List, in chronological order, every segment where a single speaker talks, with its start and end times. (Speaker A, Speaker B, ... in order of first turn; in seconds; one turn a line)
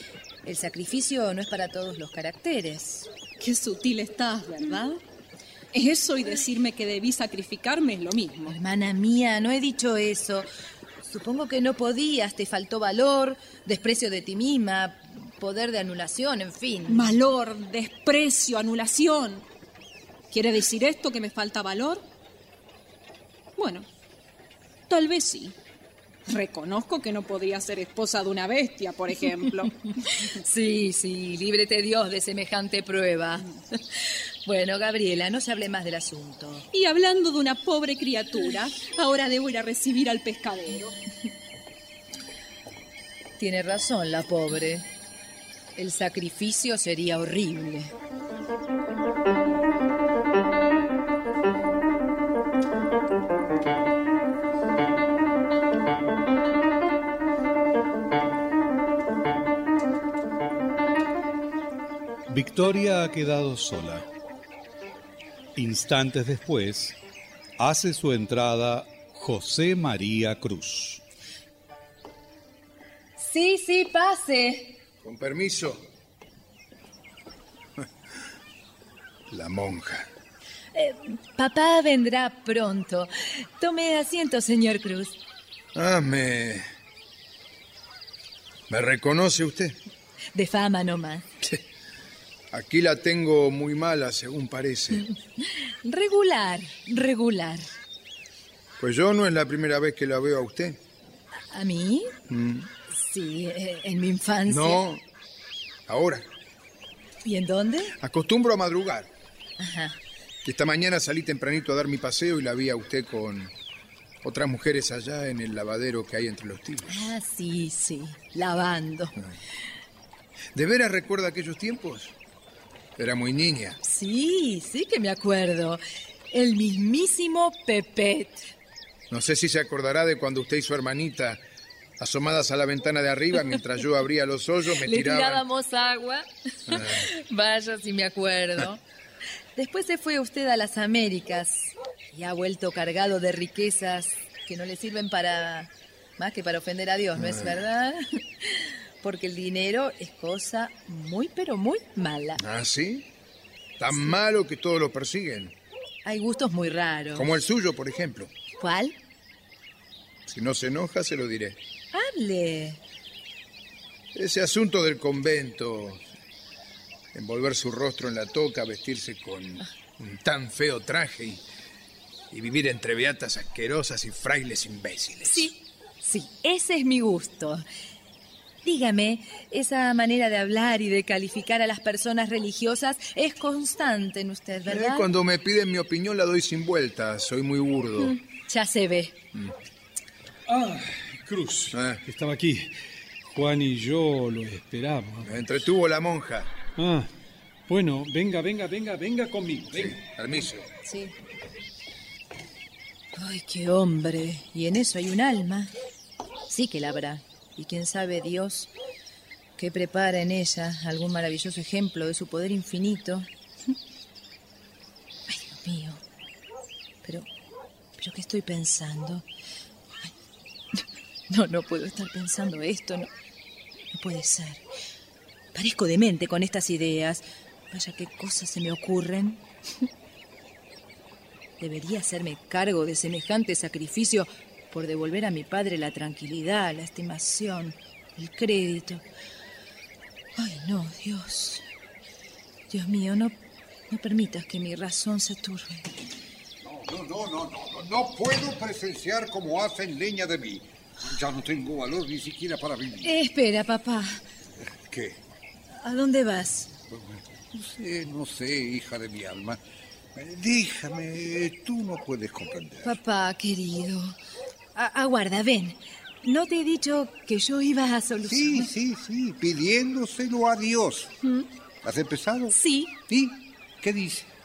Speaker A: 0.4-3.1
Speaker B: 3.4-5.0
Speaker B: 5.7-8.6
Speaker A: 8.5-10.5
Speaker A: 11.1-17.2
Speaker B: 16.9-19.4
Speaker B: 20.3-22.0
Speaker B: 23.6-23.9
Speaker B: 24.9-25.6
Speaker B: 26.3-29.8
Speaker A: 29.9-36.6
Speaker B: 36.7-41.0
Speaker A: 43.4-44.9
Speaker A: 45.8-47.9
Speaker C: 62.3-64.0
Speaker C: 65.6-67.0
Speaker C: 67.6-71.0
Speaker A: 73.2-74.8
Speaker D: 75.0-75.9
Speaker D: 79.3-80.1
Speaker A: 80.8-85.2
Speaker D: 85.8-86.7
Speaker D: 88.7-89.8
Speaker A: 90.3-91.3
Speaker D: 92.5-95.0
Speaker A: 94.9-97.7
Speaker D: 98.8-100.8
Speaker A: 101.5-102.2
Speaker D: 102.3-102.7
Speaker A: 102.9-104.8
Speaker D: 104.5-105.0
Speaker D: 105.9-106.2
Speaker A: 107.2-108.0
Speaker D: 108.0-109.1
Speaker A: 109.6-110.0
Speaker D: 110.5-113.5
Speaker D: 114.2-117.0
Speaker A: 116.9-119.2
Speaker D: 120.5-122.1
Speaker D: 123.0-123.8
Speaker A: 123.8-128.4
Speaker D: 129.1-131.4
Speaker D: 132.0-135.4
Speaker A: 134.7-138.8
Speaker D: 136.7-137.0
Speaker A: 139.6-152.4
Speaker D: 147.2-147.5
Speaker D: 152.4-153.1
Speaker D: 153.8-155.5
Speaker A: 156.1-157.3
Speaker D: 157.2-158.3
Speaker A: 158.6-159.0
Speaker D: 160.3-161.6
Speaker A: 161.9-162.8
Speaker D: 164.2-166.0
Speaker D: 167.1-171.4
Speaker D: 172.3-175.5
Speaker A: 175.2-177.7
Speaker A: 178.6-185.1
Speaker D: 184.7-188.2
Speaker A: 188.0-189.2
Speaker E: 190.5-192.7
Speaker D: 191.7-192.0
Speaker E: 193.3-195.3
Speaker D: 195.2-196.5
Speaker E: 196.8-197.1
Speaker E: 197.7-200.0
Speaker D: 199.7-200.7
Speaker A: 200.8-201.1
Speaker A: 203.1-205.7
Speaker A: 206.5-208.7
Speaker A: 209.6-213.3
Speaker A: 215.3-216.0
Speaker A: 218.0-219.2
Speaker A: 220.7-223.1
Speaker A: 223.9-224.6
Speaker A: 225.5-229.4
Speaker A: 231.6-239.0
Speaker A: 240.4-241.7
Speaker A: 242.7-243.3
Speaker A: 243.9-245.9
Speaker F: 246.6-253.2
Speaker A: 253.0-254.2
Speaker F: 254.8-255.2
Speaker A: 255.8-256.7
Speaker F: 256.9-259.6
Speaker F: 260.1-263.0
Speaker A: 262.8-264.2
Speaker A: 264.8-268.7
Speaker F: 268.2-271.1
Speaker F: 271.8-272.6
Speaker A: 272.5-272.9
Speaker F: 273.1-274.3